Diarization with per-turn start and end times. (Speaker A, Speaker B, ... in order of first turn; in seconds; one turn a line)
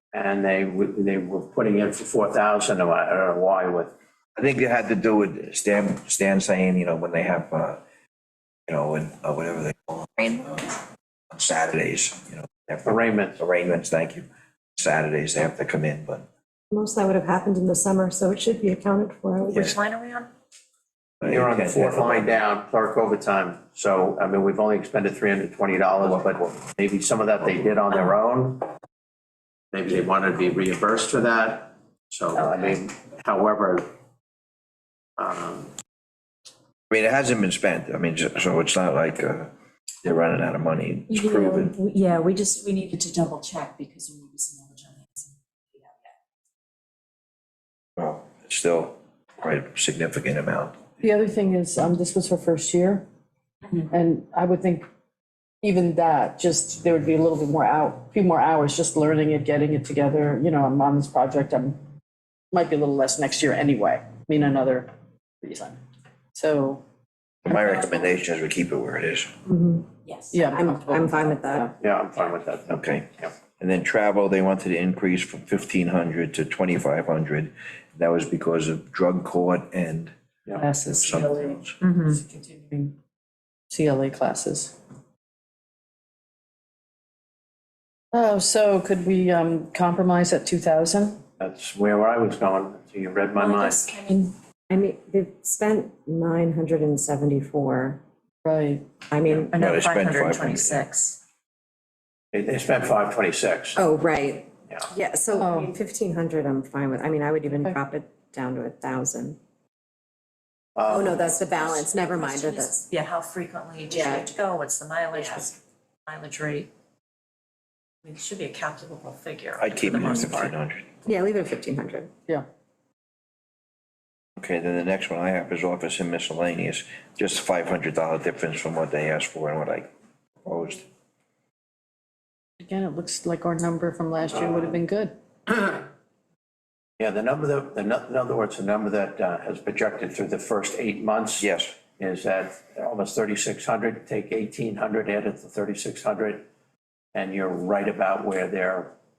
Speaker A: 0.1-3.9
Speaker B: 4.4-7.8
Speaker B: 8.7-10.8
Speaker B: 11.3-14.2
Speaker A: 12.8-13.4
Speaker B: 14.8-16.3
Speaker C: 16.7-19.8
Speaker D: 19.5-20.3
Speaker B: 21.2-22.3
Speaker A: 21.2-28.7
Speaker A: 29.7-33.9
Speaker D: 32.4-32.7
Speaker A: 35.2-35.7
Speaker B: 36.9-39.5
Speaker B: 40.0-41.8
Speaker D: 41.1-46.1
Speaker B: 48.0-50.8
Speaker E: 51.0-53.0
Speaker E: 53.9-54.9
Speaker E: 55.6-61.8
Speaker E: 62.5-64.9
Speaker E: 65.4-65.8
Speaker E: 66.3-66.8
Speaker B: 67.4-69.3
Speaker C: 69.5-69.9
Speaker D: 70.1-70.5
Speaker E: 70.3-71.7
Speaker C: 70.5-71.8
Speaker A: 71.8-73.3
Speaker B: 72.8-80.1
Speaker E: 80.6-83.0
Speaker B: 80.8-81.8
Speaker D: 81.8-82.2
Speaker E: 83.7-84.7
Speaker E: 88.1-91.2
Speaker A: 91.4-93.9
Speaker D: 93.4-94.3
Speaker C: 94.7-98.0
Speaker E: 98.4-98.8
Speaker C: 99.1-99.5
Speaker D: 99.5-101.2
Speaker B: 99.5-100.8
Speaker A: 102.3-103.8
Speaker C: 103.8-109.4
Speaker E: 105.4-105.7
Speaker A: 110.8-111.3
Speaker C: 110.9-112.8
Speaker D: 111.5-115.5
Speaker C: 113.9-114.3
Speaker D: 116.1-116.7
Speaker D: 118.0-120.5
Speaker B: 119.6-120.9
Speaker C: 121.0-122.1
Speaker B: 124.4-129.9
Speaker B: 130.4-130.9
Speaker E: 132.6-135.1
Speaker A: 137.0-141.4
Speaker B: 141.4-141.8
Speaker A: 142.0-146.5
Speaker A: 147.1-148.9